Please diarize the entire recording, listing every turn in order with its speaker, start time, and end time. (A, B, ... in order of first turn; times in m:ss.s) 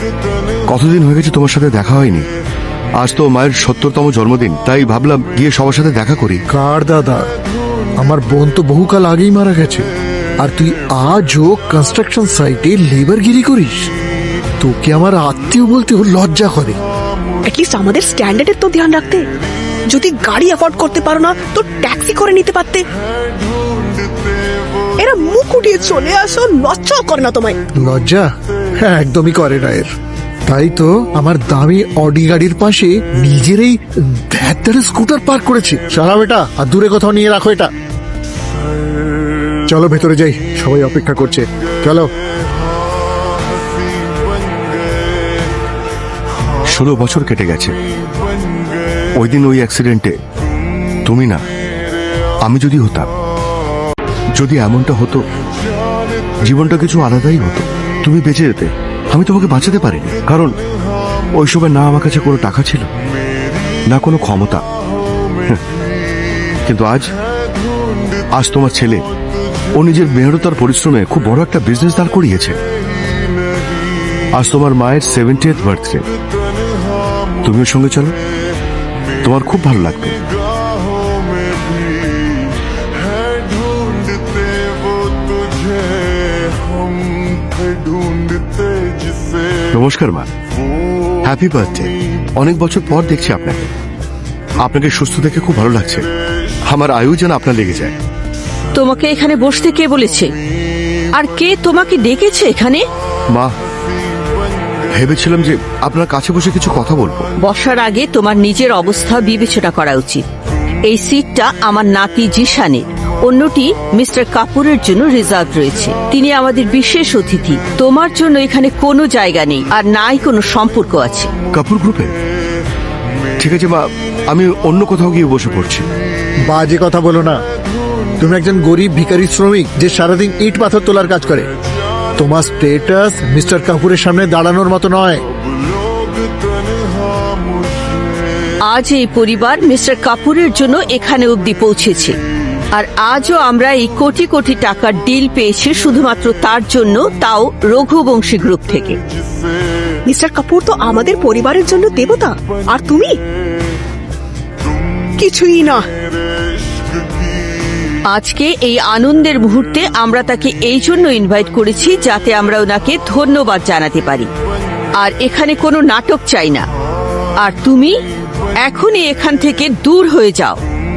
0:00.7-0:02.3 A
0:03.0-0:06.4 A
0:06.5-0:07.3 B
0:08.0-0:09.9 B
0:10.4-0:13.9 B
0:14.6-0:16.8 B
0:17.4-0:19.3 C
0:19.9-0:22.8 C
0:25.0-0:27.6 C
0:27.8-0:28.3 B
0:28.8-0:29.9 B
0:30.5-0:37.7 B
0:39.7-0:42.1 B
0:46.7-0:47.8 A
0:49.2-0:50.1 A
0:51.0-0:51.4 A
0:52.4-0:53.1 A
0:54.4-0:55.2 A
0:56.4-1:00.6 A
1:01.4-1:02.9 A
1:03.9-1:04.6 A
1:06.7-1:07.1 A
1:08.3-1:09.0 A
1:09.8-1:12.6 A
1:14.3-1:16.0 A
1:17.4-1:18.2 A
1:19.2-1:20.2 A
1:29.7-1:30.3 A
1:31.2-1:33.7 A
1:34.6-1:36.1 A
1:36.7-1:37.9 A
1:38.7-1:40.3 D
1:41.1-1:42.8 D
1:44.9-1:47.3 A
1:47.4-1:50.2 D
1:50.9-2:01.3 D
2:01.5-2:02.1 A
2:03.4-2:05.9 A
2:06.5-2:07.4 B
2:08.2-2:11.5 B
2:12.2-2:15.2 B
2:18.7-2:22.2 D
2:22.7-2:29.0 D
2:30.1-2:33.1 C
2:35.2-2:35.8 C
2:38.1-2:44.3 D
2:45.0-2:46.6 D
2:47.4-2:47.9 D
2:48.6-2:50.6 D